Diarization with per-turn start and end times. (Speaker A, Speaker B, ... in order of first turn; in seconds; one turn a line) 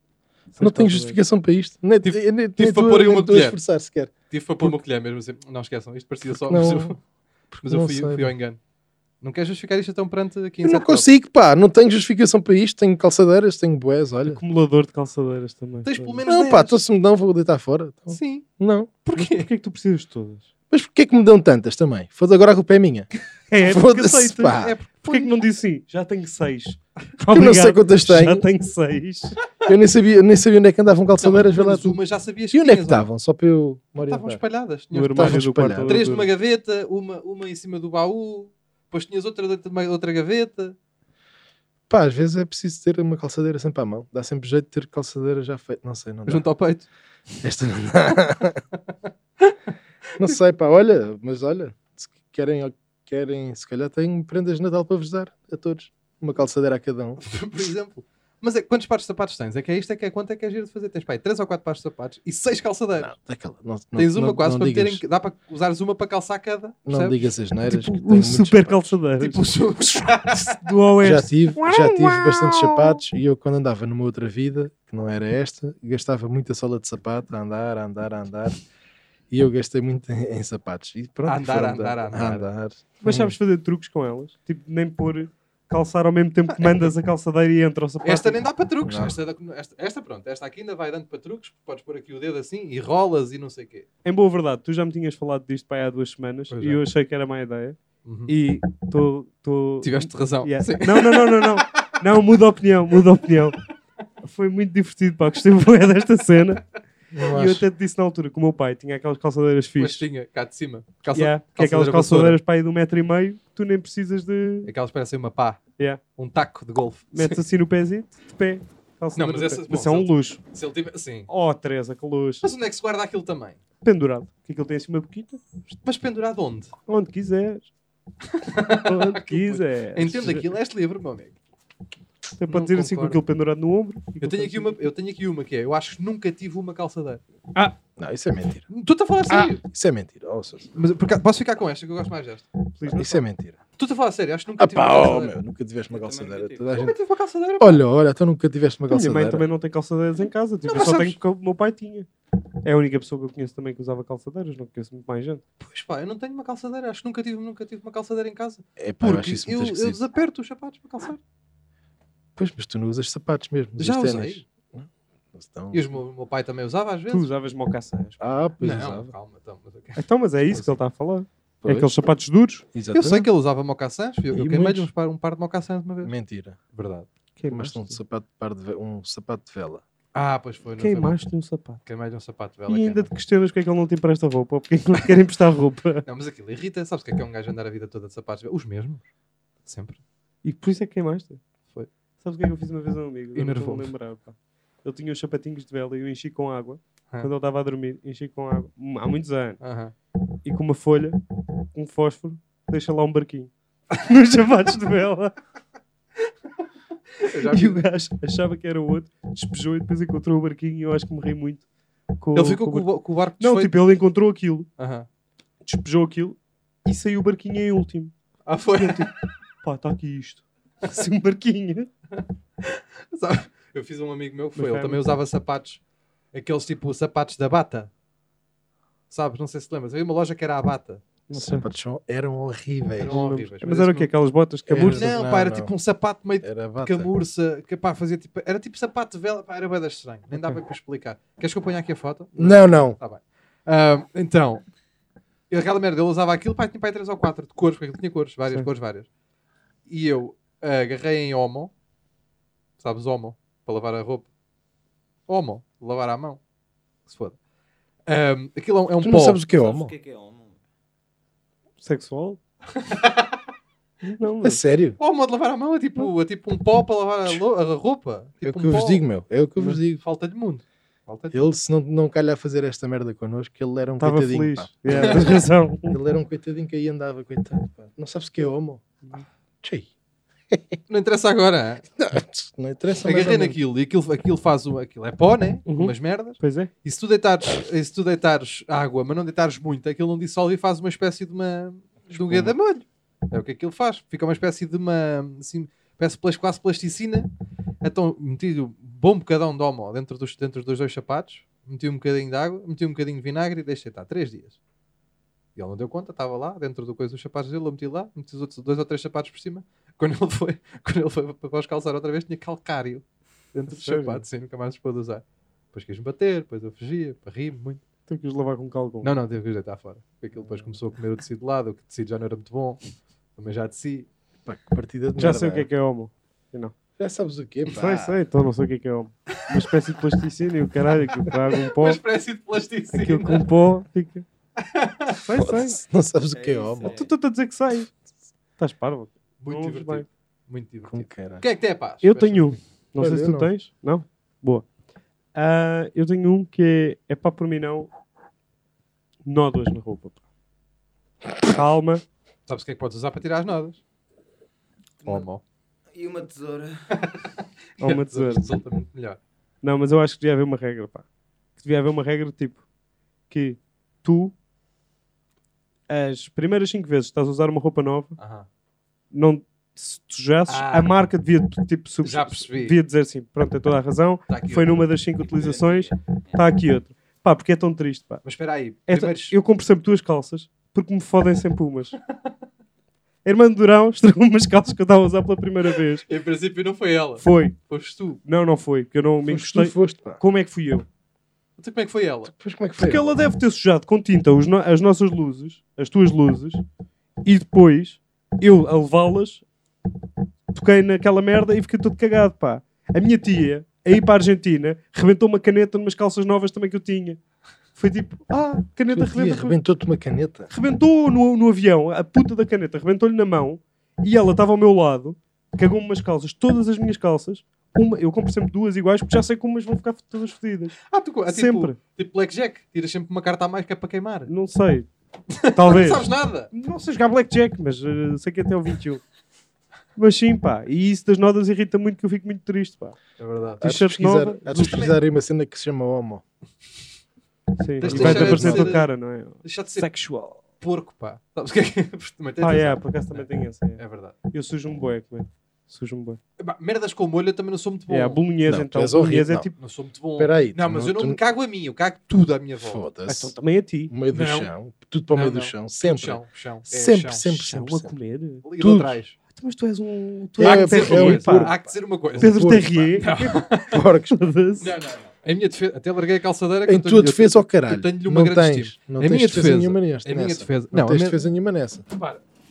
Speaker A: 0.5-1.2
Speaker B: 0.6-4.7
Speaker C: 2.0-3.6
Speaker C: 4.3-7.0
Speaker B: 6.3-6.9
Speaker B: 7.5-8.3
Speaker C: 7.6-8.6
Speaker C: 9.2-11.1
Speaker B: 10.6-14.4
Speaker A: 14.2-16.2
Speaker C: 15.8-16.8
Speaker B: 16.2-18.9
Speaker C: 18.1-18.4
Speaker C: 19.0-19.5
Speaker A: 19.1-20.5
Speaker B: 20.7-23.1
Speaker A: 23.5-29.4
Speaker B: 23.6-24.8
Speaker C: 24.5-25.4
Speaker B: 27.3-28.4
Speaker B: 29.6-32.0
Speaker C: 31.2-33.0
Speaker B: 32.5-34.4
Speaker C: 34.0-40.8
Speaker A: 34.9-36.3
Speaker B: 35.1-36.0
Speaker B: 41.9-46.5
Speaker C: 46.2-46.9
Speaker B: 47.4-48.6
Speaker C: 49.4-49.7
Speaker B: 50.2-57.2
Speaker C: 57.2-63.1
Speaker B: 63.0-65.0
Speaker C: 63.9-67.3
Speaker B: 66.9-69.0
Speaker A: 67.7-69.5
Speaker C: 69.2-70.6
Speaker A: 70.3-73.0
Speaker B: 71.0-78.6
Speaker B: 79.3-83.3
Speaker C: 81.2-82.5
Speaker A: 83.0-88.5
Speaker C: 86.5-86.9
Speaker C: 88.0-93.8
Speaker B: 88.9-89.2
Speaker A: 94.0-103.6
Speaker C: 96.5-96.8
Speaker C: 98.0-98.3
Speaker C: 99.8-101.8
Speaker A: 104.2-106.6
Speaker B: 107.1-107.6
Speaker A: 107.2-110.0
Speaker C: 109.8-112.4
Speaker A: 111.1-114.7
Speaker C: 114.6-115.6
Speaker C: 116.2-117.4
Speaker A: 117.1-120.4
Speaker C: 119.2-121.3
Speaker A: 121.3-122.4
Speaker C: 122.4-123.6
Speaker A: 123.8-125.4
Speaker C: 125.8-126.7
Speaker A: 126.9-127.7
Speaker C: 128.3-131.3
Speaker A: 128.7-130.4
Speaker A: 132.4-134.8
Speaker C: 132.5-133.2
Speaker C: 134.2-137.2
Speaker B: 138.0-138.6
Speaker C: 138.7-139.6
Speaker B: 139.3-140.7
Speaker C: 140.7-142.5
Speaker A: 142.8-143.2
Speaker B: 142.8-143.6
Speaker C: 143.8-145.3
Speaker B: 144.6-146.9
Speaker D: 145.9-146.8
Speaker C: 146.8-147.8
Speaker B: 147.6-149.4
Speaker A: 148.9-152.1
Speaker C: 150.7-151.2
Speaker A: 152.6-155.4
Speaker C: 155.6-161.2
Speaker B: 158.8-160.0
Speaker B: 162.3-166.0
Speaker C: 163.8-164.4
Speaker C: 165.7-167.3
Speaker A: 167.1-168.2
Speaker B: 168.2-169.1
Speaker C: 168.6-170.7
Speaker A: 170.0-172.6
Speaker B: 171.6-171.9
Speaker B: 172.7-173.3
Speaker C: 172.9-176.1
Speaker B: 174.3-174.9
Speaker B: 176.0-176.6
Speaker C: 176.7-177.1
Speaker A: 177.4-178.0
Speaker B: 177.5-179.8
Speaker C: 180.1-181.2
Speaker A: 180.8-181.8
Speaker C: 181.8-183.1
Speaker A: 182.7-186.0
Speaker C: 186.0-189.0
Speaker C: 189.7-190.0
Speaker A: 190.4-191.4
Speaker A: 192.2-199.6
Speaker C: 193.3-193.9
Speaker C: 199.6-199.9
Speaker A: 200.4-201.2
Speaker A: 201.7-205.3
Speaker C: 207.2-207.8
Speaker A: 207.2-211.6
Speaker A: 212.2-212.9
Speaker C: 212.3-213.8
Speaker A: 213.4-214.7
Speaker C: 214.8-215.1
Speaker A: 215.6-218.1
Speaker C: 218.4-219.1
Speaker A: 218.8-221.9
Speaker C: 222.6-225.8
Speaker A: 224.6-225.0
Speaker C: 226.3-227.9
Speaker C: 229.1-231.0
Speaker A: 231.3-231.7
Speaker B: 231.3-233.2
Speaker C: 233.0-234.1
Speaker A: 233.1-235.1
Speaker B: 234.7-235.7
Speaker C: 234.8-244.6
Speaker B: 236.4-237.1
Speaker A: 240.3-240.6
Speaker B: 242.4-243.0
Speaker C: 245.5-249.1
Speaker C: 249.9-251.7
Speaker C: 252.8-254.3
Speaker C: 255.3-256.4
Speaker C: 257.1-257.4
Speaker C: 258.1-259.4
Speaker B: 259.0-259.9
Speaker D: 259.4-260.6
Speaker A: 261.8-262.4
Speaker C: 262.8-263.4
Speaker A: 264.0-264.6
Speaker B: 264.4-265.0
Speaker C: 265.0-269.0
Speaker B: 268.4-270.0
Speaker C: 269.6-271.4
Speaker B: 271.3-275.3
Speaker A: 274.0-276.0
Speaker C: 275.0-275.3
Speaker B: 275.9-278.8
Speaker B: 279.6-279.9
Speaker B: 280.5-280.8
Speaker C: 280.9-281.8
Speaker B: 282.0-283.6
Speaker C: 283.0-297.3
Speaker A: 285.7-286.7
Speaker B: 292.1-292.5
Speaker C: 297.8-304.6
Speaker C: 305.6-317.8
Speaker A: 313.7-314.2
Speaker A: 318.1-319.1
Speaker C: 319.0-322.8
Speaker C: 323.4-324.1
Speaker B: 324.4-325.7
Speaker A: 325.2-326.7
Speaker B: 327.0-328.2
Speaker A: 327.7-332.0
Speaker C: 331.6-333.4
Speaker A: 332.9-334.2
Speaker C: 334.6-335.1
Speaker A: 335.1-335.8
Speaker B: 335.3-336.9
Speaker D: 336.3-337.1
Speaker A: 336.9-337.9
Speaker A: 338.6-340.1
Speaker C: 339.4-342.6
Speaker B: 340.9-341.4
Speaker A: 342.0-344.6
Speaker B: 343.0-343.5
Speaker A: 345.3-347.9
Speaker A: 349.2-350.2
Speaker A: 351.4-352.0
Speaker C: 352.5-353.8
Speaker D: 355.0-355.3
Speaker C: 355.0-355.4
Speaker D: 355.9-356.9
Speaker C: 357.8-359.2
Speaker A: 357.8-358.5
Speaker A: 359.6-361.0
Speaker A: 361.6-362.6
Speaker A: 363.3-364.3
Speaker A: 365.9-368.1
Speaker C: 368.2-368.4
Speaker A: 369.1-378.2
Speaker C: 370.5-370.9
Speaker C: 372.0-372.8
Speaker C: 374.3-374.8
Speaker D: 375.2-376.4
Speaker C: 378.2-379.3
Speaker A: 378.9-381.9
Speaker A: 383.2-386.0
Speaker C: 386.0-388.2
Speaker A: 387.2-387.5
Speaker A: 388.2-390.9
Speaker B: 389.2-390.2
Speaker C: 391.6-392.3
Speaker B: 392.3-393.1
Speaker A: 392.8-396.6
Speaker A: 397.2-399.4
Speaker A: 400.5-407.2
Speaker A: 407.8-409.6
Speaker B: 408.9-410.5
Speaker A: 410.5-421.8
Speaker C: 420.9-424.3
Speaker A: 424.3-424.9
Speaker C: 425.3-426.5
Speaker A: 425.5-429.0
Speaker A: 429.9-433.0
Speaker C: 433.2-433.6
Speaker B: 433.6-436.2
Speaker A: 433.6-434.9
Speaker C: 434.6-435.0
Speaker A: 437.6-440.4
Speaker B: 437.8-438.8
Speaker C: 437.8-438.9
Speaker C: 439.4-439.9
Speaker C: 440.6-443.2
Speaker A: 442.4-443.8
Speaker C: 443.8-444.1
Speaker A: 444.3-446.2
Speaker C: 446.4-448.2
Speaker A: 447.9-449.5
Speaker B: 448.4-449.5
Speaker C: 449.6-452.8
Speaker B: 450.2-451.2
Speaker B: 452.6-453.3
Speaker A: 453.1-453.9
Speaker B: 453.9-457.9
Speaker C: 454.1-454.5
Speaker C: 455.1-457.3
Speaker A: 457.3-458.4
Speaker C: 458.4-459.1
Speaker B: 458.6-459.0
Speaker A: 459.3-461.6
Speaker B: 460.4-463.1
Speaker C: 460.4-463.8
Speaker A: 462.2-463.4
Speaker B: 463.7-464.2
Speaker A: 464.1-464.7
Speaker C: 464.6-471.2
Speaker B: 466.7-471.8
Speaker C: 471.9-472.2